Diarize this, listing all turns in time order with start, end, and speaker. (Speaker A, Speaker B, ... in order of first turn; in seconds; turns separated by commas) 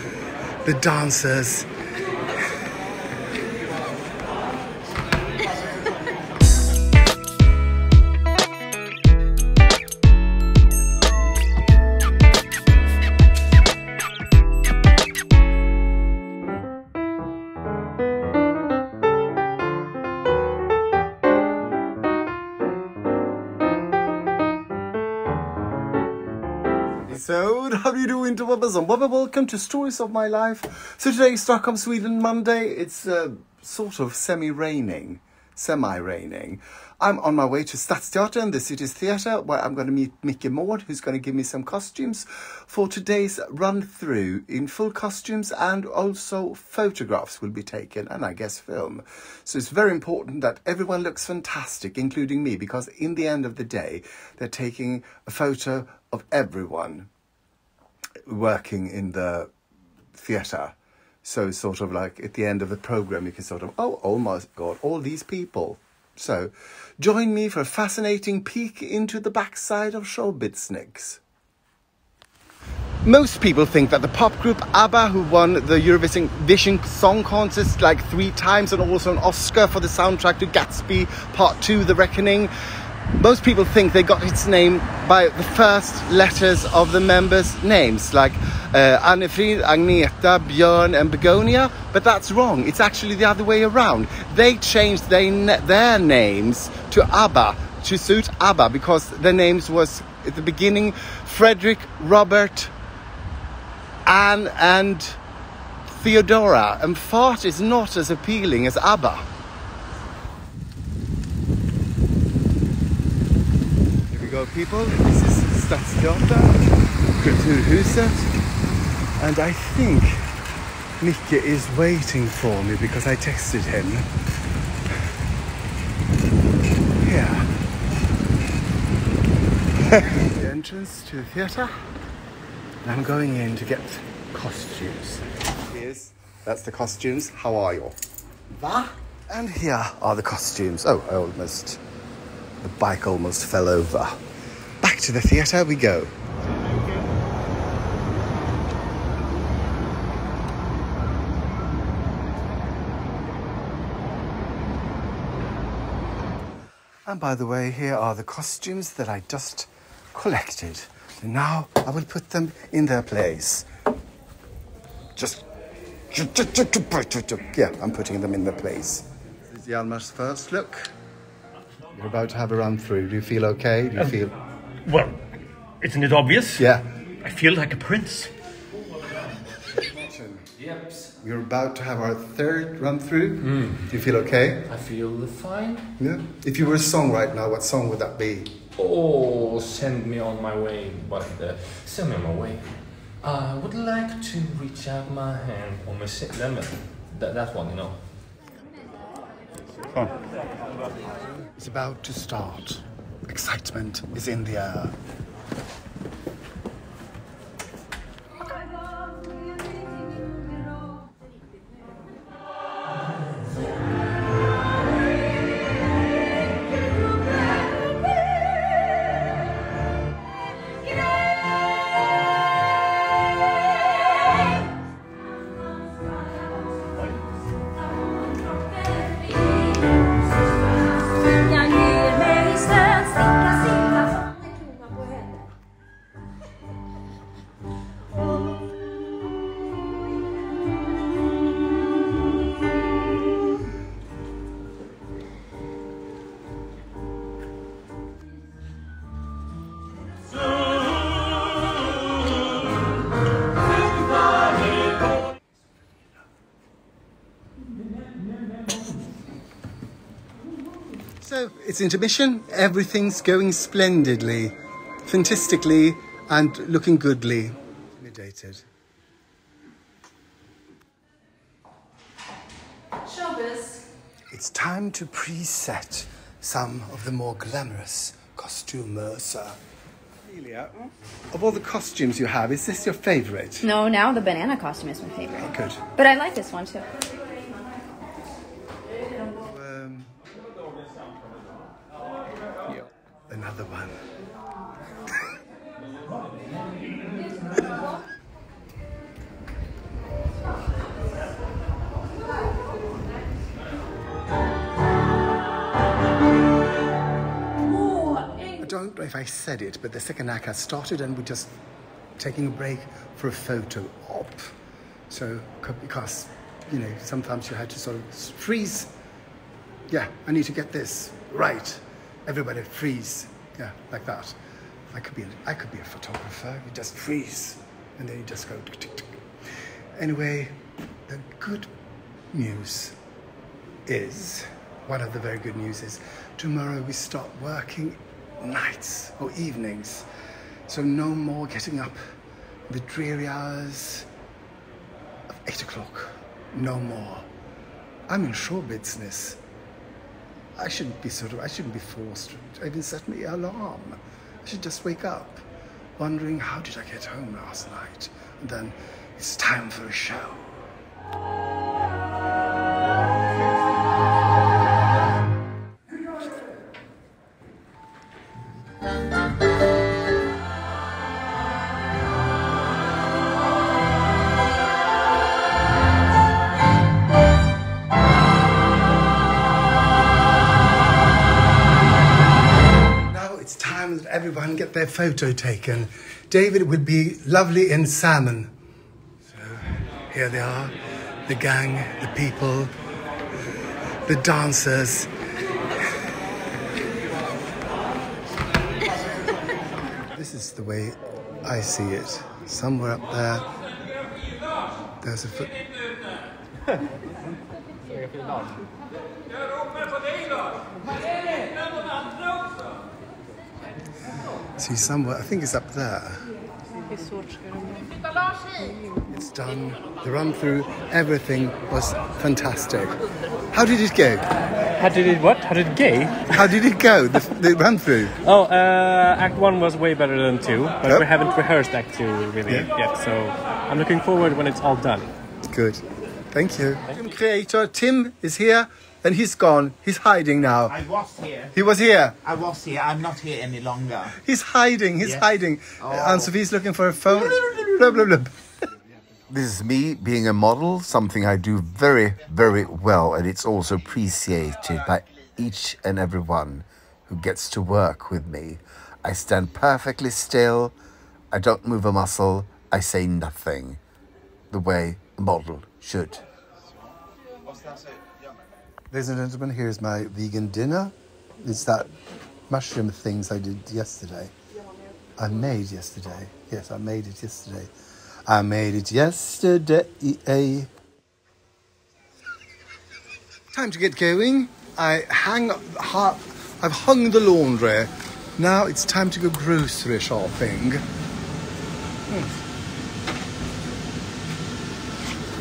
Speaker A: 0.6-1.7, Speaker A: 27.1-57.1, Speaker A: 58.3-59.5, Speaker A: 60.1-71.2, Speaker A: 73.0-82.5, Speaker A: 83.2-102.7, Speaker A: 104.1-105.2, Speaker A: 105.9-109.3, Speaker A: 114.1-116.7, Speaker A: 117.2-118.3, Speaker A: 119.2-120.2, Speaker A: 121.0-124.1, Speaker A: 127.0-127.5, Speaker A: 129.9-131.8, Speaker A: 132.8-138.0, Speaker A: 138.6-141.8, Speaker A: 142.6-144.2, Speaker A: 144.8-146.2, Speaker A: 157.1-163.7, Speaker A: 165.2-165.5, Speaker A: 166.1-170.9, Speaker A: 171.9-174.4, Speaker B: 174.9-175.2, Speaker B: 175.8-176.5, Speaker A: 176.6-176.8, Speaker B: 177.2-178.3, Speaker A: 179.8-180.4, Speaker C: 180.6-181.1, Speaker A: 181.2-184.7, Speaker C: 183.4-183.9, Speaker C: 184.7-185.9, Speaker A: 186.0-188.5, Speaker C: 188.8-198.1, Speaker A: 201.6-204.9, Speaker D: 231.6-235.2, Speaker A: 261.2-268.6, Speaker A: 274.3-279.6, Speaker A: 280.2-280.8, Speaker A: 281.3-283.7, Speaker D: 283.6-286.9, Speaker A: 285.4-285.8, Speaker A: 289.4-290.1, Speaker A: 293.3-294.0, Speaker A: 308.6-311.5, Speaker A: 312.2-314.6, Speaker A: 315.1-318.9, Speaker A: 319.9-324.4, Speaker A: 324.9-329.1, Speaker A: 329.9-330.6, Speaker A: 331.1-331.7, Speaker A: 332.3-333.0, Speaker A: 333.9-340.1, Speaker A: 340.7-342.0, Speaker A: 342.7-344.1, Speaker A: 345.3-347.3, Speaker A: 348.1-349.4, Speaker A: 350.6-355.4, Speaker A: 356.0-360.6, Speaker A: 383.1-388.5, Speaker A: 389.2-392.7, Speaker A: 394.1-395.1, Speaker A: 400.1-403.5, Speaker A: 405.0-405.6, Speaker A: 414.6-416.3, Speaker A: 419.1-423.0, Speaker A: 423.5-424.3, Speaker E: 424.8-426.3, Speaker A: 426.3-428.2, Speaker E: 428.2-435.1, Speaker A: 435.5-440.8, Speaker F: 440.7-441.5, Speaker A: 441.5-442.2, Speaker F: 442.2-444.1, Speaker A: 444.1-448.3, Speaker G: 449.3-460.7, Speaker G: 461.3-463.8, Speaker G: 464.5-466.2, Speaker A: 468.9-471.9, Speaker A: 472.5-474.3, Speaker A: 475.2-477.7, Speaker A: 478.3-480.7, Speaker A: 483.5-490.8, Speaker A: 492.1-492.4